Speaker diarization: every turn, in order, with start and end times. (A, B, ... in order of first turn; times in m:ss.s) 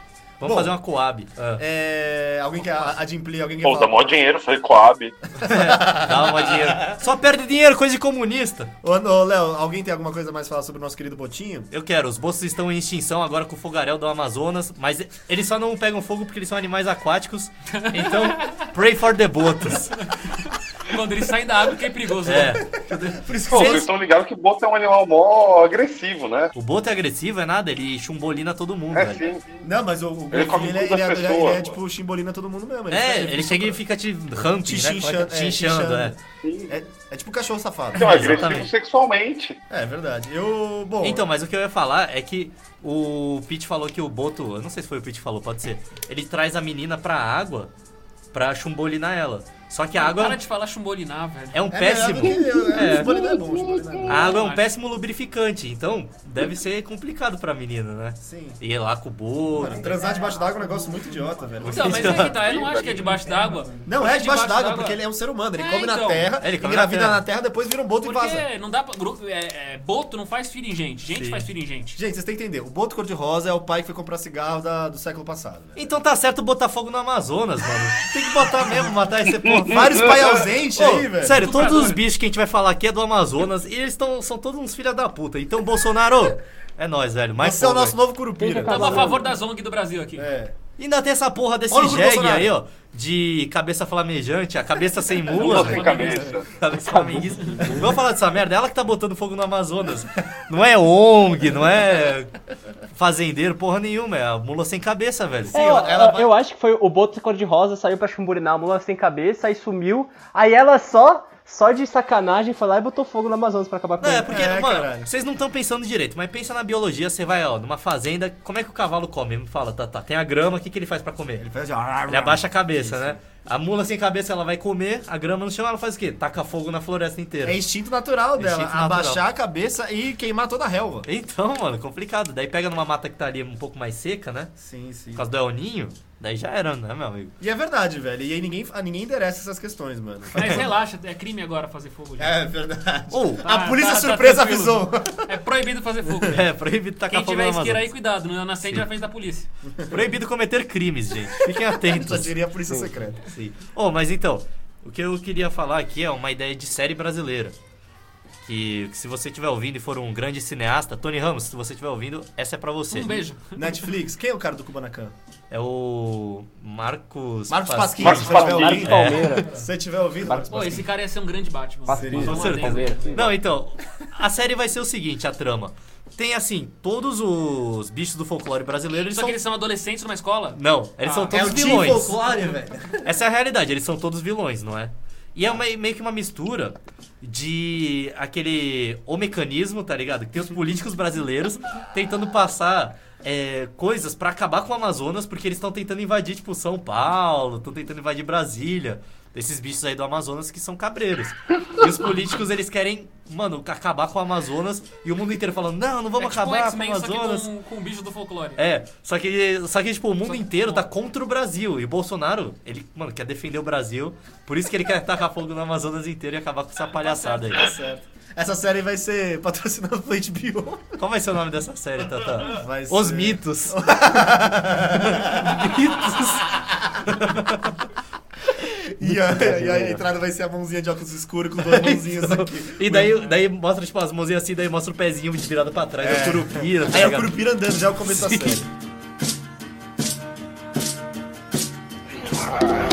0:00.4-0:01.6 A
0:00.4-0:00.8 B
0:01.6-0:04.0 B
0:03.6-0:05.2 C
0:05.4-0:07.0 B
0:05.4-0:08.7 A
0:08.8-0:11.7 B
0:11.7-0:20.0 A
0:17.7-0:18.7 D
0:19.7-0:22.6 D
0:22.2-0:23.9 A
0:23.2-0:23.8 B
0:23.5-0:26.5 C
0:26.5-0:29.2 A
0:28.9-0:29.5 C
0:29.6-0:33.8 B
0:30.3-0:31.8 C
0:32.9-0:36.2 A
0:34.6-0:38.4 B
0:36.4-0:36.7 C
0:37.9-0:39.6 C
0:38.0-0:38.7 A
0:39.7-0:41.3 B
0:41.0-0:47.7 A
0:48.3-0:50.4 A
0:49.9-0:51.7 D
0:51.5-0:53.2 A
0:51.7-0:54.4 B
0:53.5-0:54.1 C
0:54.1-1:00.0 A
0:54.2-0:54.7 D
0:58.2-0:58.6 B
0:59.5-1:02.3 B
1:01.6-1:02.4 A
1:01.6-1:05.0 D
1:02.4-1:03.1 C
1:03.8-1:08.4 B
1:05.6-1:06.3 D
1:06.4-1:07.2 A
1:08.0-1:12.0 D
1:11.1-1:11.5 A
1:12.0-1:15.9 B
1:15.8-1:28.0 A
1:19.7-1:21.4 B
1:21.3-1:22.0 D
1:27.4-1:29.2 B
1:28.4-1:29.3 E
1:28.6-1:30.3 D
1:30.2-1:30.5 B
1:30.8-1:42.3 A
1:31.7-1:32.5 B
1:35.3-1:36.5 C
1:35.5-1:36.3 D
1:36.1-1:36.3 B
1:36.8-1:38.0 E
1:42.9-1:45.6 A
1:45.5-1:46.3 B
1:45.5-1:54.4 E
1:54.0-2:01.4 A
1:54.3-1:55.1 B
2:01.4-2:03.2 B
2:02.1-2:07.6 A
2:07.4-2:11.1 B
2:08.4-2:09.2 A
2:11.1-2:14.5 A
2:14.6-2:15.3 B
2:15.2-2:17.3 A
2:17.4-2:20.7 B
2:20.4-2:22.3 D
2:20.4-2:20.6 A
2:22.2-2:25.3 B
2:23.1-2:23.5 A
2:23.4-2:26.4 D
2:26.2-2:27.9 A
2:27.1-2:29.5 D
2:29.7-2:30.0 B
2:29.9-2:32.3 A
2:31.7-2:33.2 B
2:33.3-2:37.6 A
2:38.4-2:43.2 A
2:42.9-2:43.9 D
2:43.6-2:45.1 B
2:45.5-2:49.4 A
2:47.5-2:50.8 B
2:48.0-2:48.8 C
2:48.3-2:49.5 E
2:50.2-2:50.8 E
2:50.5-2:53.1 D
2:51.9-2:53.4 E
2:51.9-2:52.9 B
2:52.2-2:59.4 A
2:59.0-3:01.4 D
3:00.6-3:02.4 A
3:01.3-3:03.1 B
3:03.0-3:27.5 A
3:26.2-3:28.6 D
3:28.6-3:37.7 A
3:30.2-3:30.9 D
3:36.9-3:37.6 D
3:37.6-3:40.9 B
3:41.0-3:44.2 A
3:42.4-3:45.7 B
3:44.9-3:47.7 A
3:46.7-3:47.3 B
3:48.6-3:53.2 B
3:49.2-3:50.0 E
3:51.6-3:57.3 A
3:56.0-3:58.7 B
3:58.1-3:58.6 A